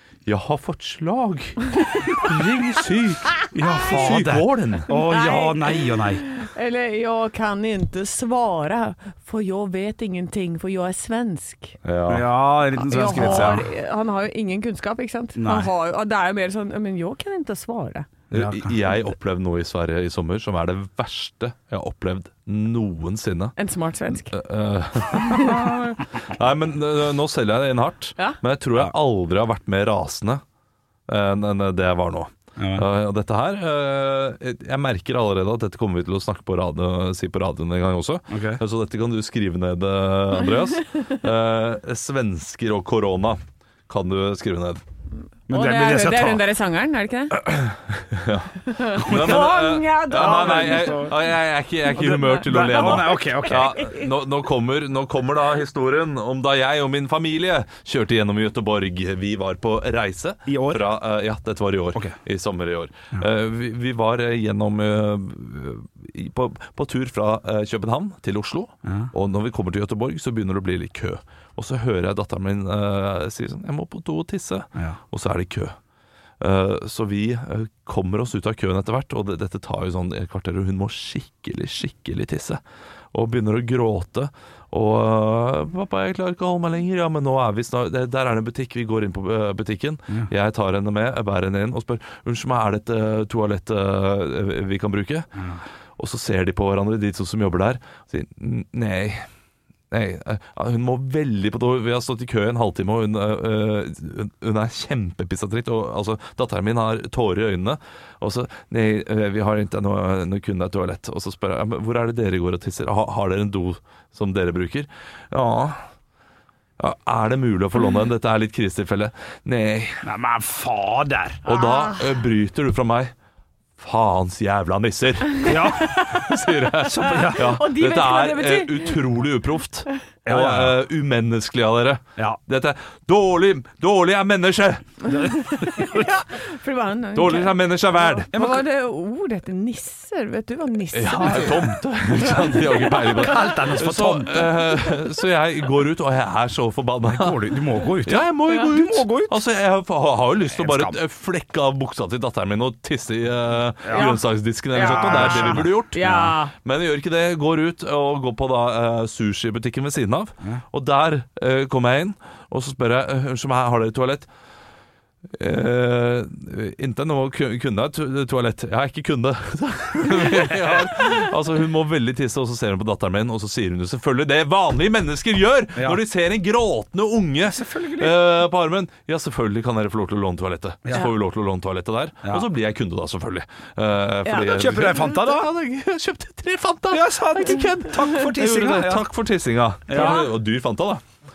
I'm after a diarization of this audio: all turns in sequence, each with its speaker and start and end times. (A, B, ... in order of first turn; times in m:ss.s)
0:00.3-0:04.9 A
0:03.5-0:06.2 B
0:03.7-0:04.0 C
0:04.9-0:11.8 C
0:11.8-0:12.3 A
0:12.1-0:13.7 B
0:12.8-0:18.1 C
0:13.1-0:13.6 A
0:15.4-0:15.7 B
0:18.3-0:18.8 B
0:18.3-0:23.6 A
0:23.6-0:24.3 C
0:24.3-0:30.4 A
0:25.2-0:25.8 C
0:31.1-0:44.8 A
0:32.6-0:32.9 B
0:38.3-0:38.6 B
0:45.5-0:46.4 B
0:45.5-0:47.4 C
0:48.0-1:15.8 A
0:48.7-0:51.2 C
0:49.1-0:49.5 B
0:50.1-0:51.1 B
0:51.9-0:54.1 C
0:52.4-0:53.9 B
1:00.5-1:00.9 B
1:16.4-1:22.6 A
1:23.1-1:35.3 A
1:35.4-1:35.6 B
1:36.0-1:39.3 A
1:39.9-1:55.8 A
1:56.8-2:00.0 A
2:00.0-2:01.5 B
2:01.4-2:03.1 A
2:01.5-2:02.0 C
2:03.8-2:15.1 A
2:05.4-2:06.0 B
2:05.8-2:09.0 C
2:06.8-2:07.6 B
2:10.3-2:10.8 B
2:15.1-2:16.1 B
2:15.4-2:23.1 C
2:17.2-2:18.3 A
2:18.3-2:18.7 B
2:20.9-2:27.5 A
2:21.2-2:21.8 B
2:23.1-2:24.4 B
2:27.1-2:29.4 B
2:28.0-2:44.3 A
2:30.4-2:31.0 B
2:33.8-2:34.2 B
2:33.9-2:36.5 C
2:34.7-2:36.3 B
2:45.4-3:11.0 A
2:57.5-2:58.2 B
3:04.4-3:05.5 B
3:06.9-3:09.1 B
3:09.9-3:10.2 B
3:09.9-3:10.3 C